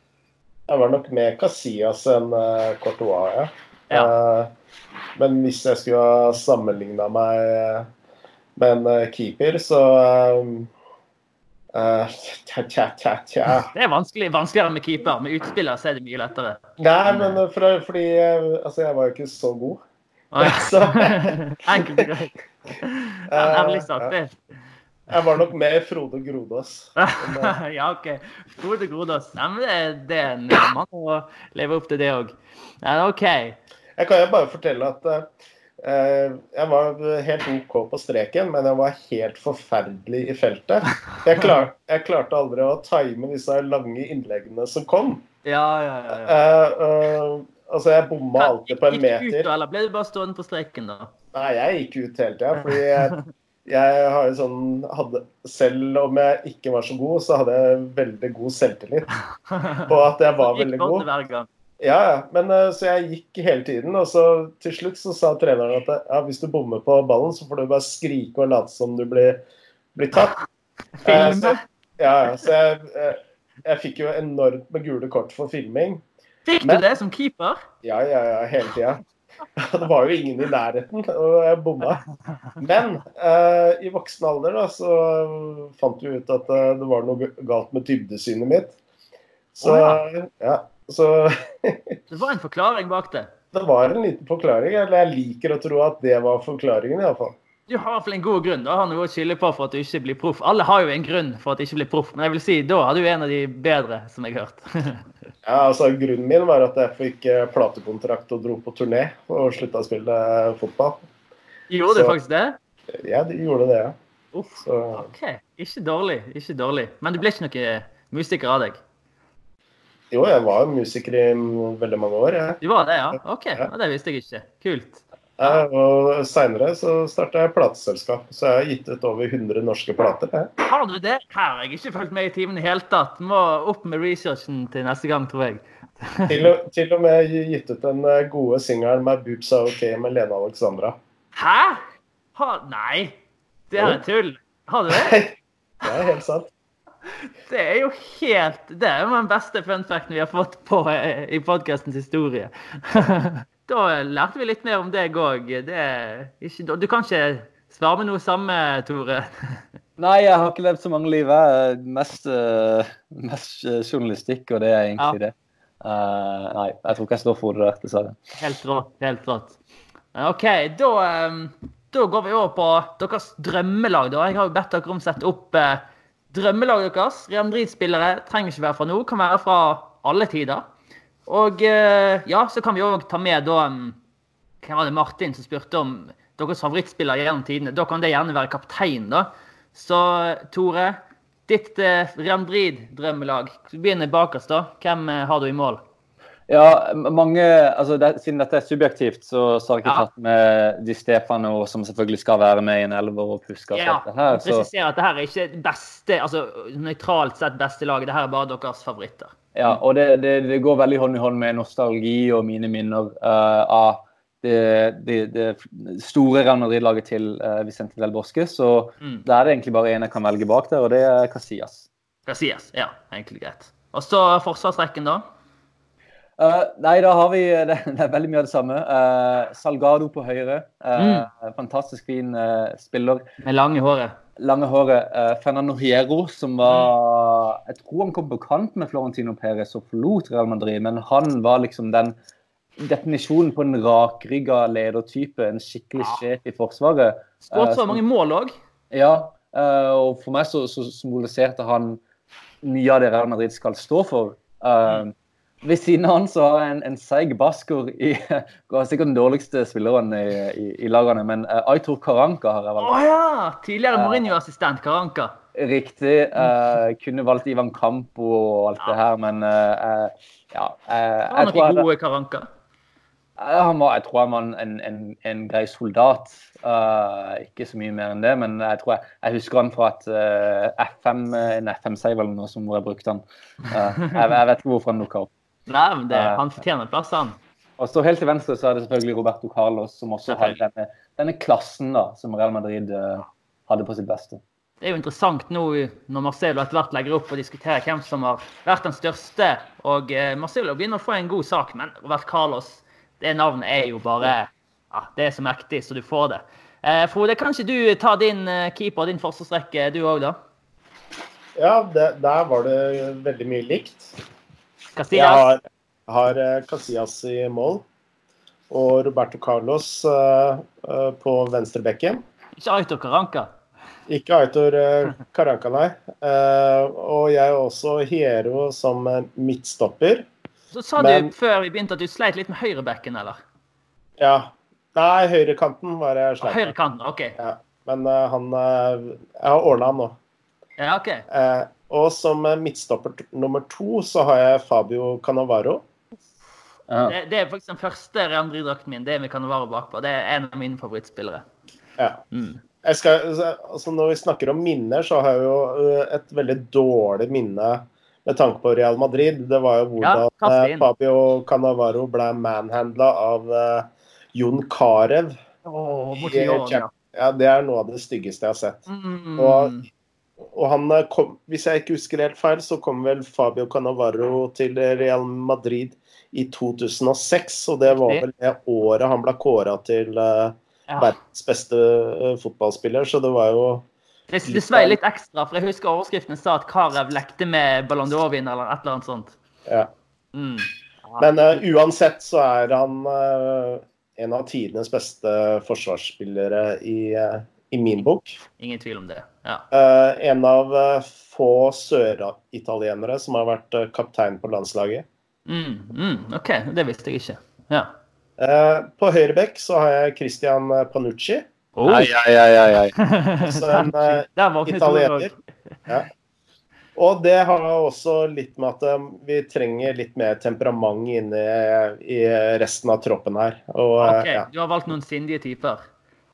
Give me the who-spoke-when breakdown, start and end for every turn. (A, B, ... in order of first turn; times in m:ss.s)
0:00.7-0:04.5 A
0:05.2-0:07.9 A
0:08.6-0:10.7 A
0:11.7-0:13.7 A
0:13.7-0:17.4 B
0:16.8-0:19.8 A
0:20.3-0:24.4 B
0:20.4-0:22.1 A
0:23.3-0:24.1 A
0:25.1-0:27.6 A
0:27.0-0:33.6 B
0:34.0-0:35.3 A
0:35.8-0:45.2 A
0:45.4-0:46.4 B
0:46.1-0:49.5 A
0:48.4-0:51.1 B
0:51.3-0:59.1 A
0:52.7-0:53.2 B
0:59.5-0:59.8 B
0:59.7-1:01.1 A
1:00.4-1:01.5 B
1:01.8-1:09.4 A
1:09.9-1:10.4 A
1:11.0-1:11.6 B
1:11.0-1:16.0 A
1:16.4-1:17.6 B
1:17.8-1:19.0 A
1:19.6-1:22.0 A
1:22.6-1:28.8 A
1:29.6-1:32.0 A
1:29.6-1:30.0 B
1:32.1-1:33.3 B
1:33.5-1:37.3 A
1:37.7-1:45.1 B
1:45.4-1:51.0 A
1:51.7-1:52.6 B
1:51.9-1:52.2 A
1:53.0-1:54.0 A
1:54.3-1:58.8 B
1:54.6-1:55.1 A
2:00.1-2:02.6 A
2:02.6-2:05.6 B
2:05.4-2:10.5 A
2:10.6-2:16.5 B
2:16.3-2:21.0 A
2:21.4-2:21.8 B
2:22.4-2:23.1 B
2:23.7-2:25.2 B
2:23.7-2:24.0 A
2:24.9-2:26.5 A
2:27.5-2:39.6 B
2:40.0-2:48.2 C
2:48.4-2:49.6 B
2:50.1-3:00.6 B
3:01.3-3:04.0 B
3:04.6-3:15.8 B
3:16.5-3:24.7 C
3:23.7-3:29.8 B
3:29.6-3:41.9 C
3:42.3-3:45.2 B
3:46.4-3:53.2 C
3:51.0-3:51.3 B
3:53.4-3:54.2 B
3:54.4-4:02.1 C
3:56.6-3:56.9 B
4:02.8-4:08.0 C
4:07.5-4:08.5 B
4:08.9-4:12.0 C
4:12.6-4:22.9 C
4:22.8-4:25.4 B
4:23.9-4:24.3 C
4:25.6-4:31.9 C
4:31.3-4:32.5 B
4:33.4-4:45.3 C
4:45.7-4:47.4 B
4:46.1-4:46.4 C
4:47.8-4:54.4 C
4:50.3-4:50.6 B
4:54.8-5:10.4 B
5:11.6-5:14.1 A
5:15.0-5:15.5 B
5:15.1-5:17.8 A
5:18.7-5:22.2 A
5:22.6-5:23.5 B
5:24.1-5:30.3 A
5:30.7-5:33.4 B
5:31.0-5:31.3 A
5:34.2-5:36.7 A
5:36.4-5:37.4 B
5:37.4-5:40.2 A
5:40.8-5:41.3 B
5:41.3-5:45.8 A
5:46.9-5:47.2 C
5:47.1-5:51.4 B
5:52.3-5:52.6 B
5:52.8-6:05.4 A
6:00.0-6:00.9 B
6:05.6-6:06.9 B
6:06.1-6:08.9 A
6:08.9-6:09.8 B
6:09.4-6:09.9 A
6:10.4-6:23.9 A
6:17.9-6:18.2 B
6:24.3-6:29.4 B
6:24.4-6:25.0 A
6:30.3-6:31.3 B
6:31.2-6:38.4 A
6:38.6-6:39.7 B
6:39.7-6:45.0 A
6:45.5-6:47.9 B
6:48.4-6:51.4 A
6:51.8-6:52.2 B
6:51.9-6:52.9 C
6:53.0-6:55.3 B
6:53.4-6:55.3 A
6:57.0-7:04.4 A
7:04.0-7:05.8 B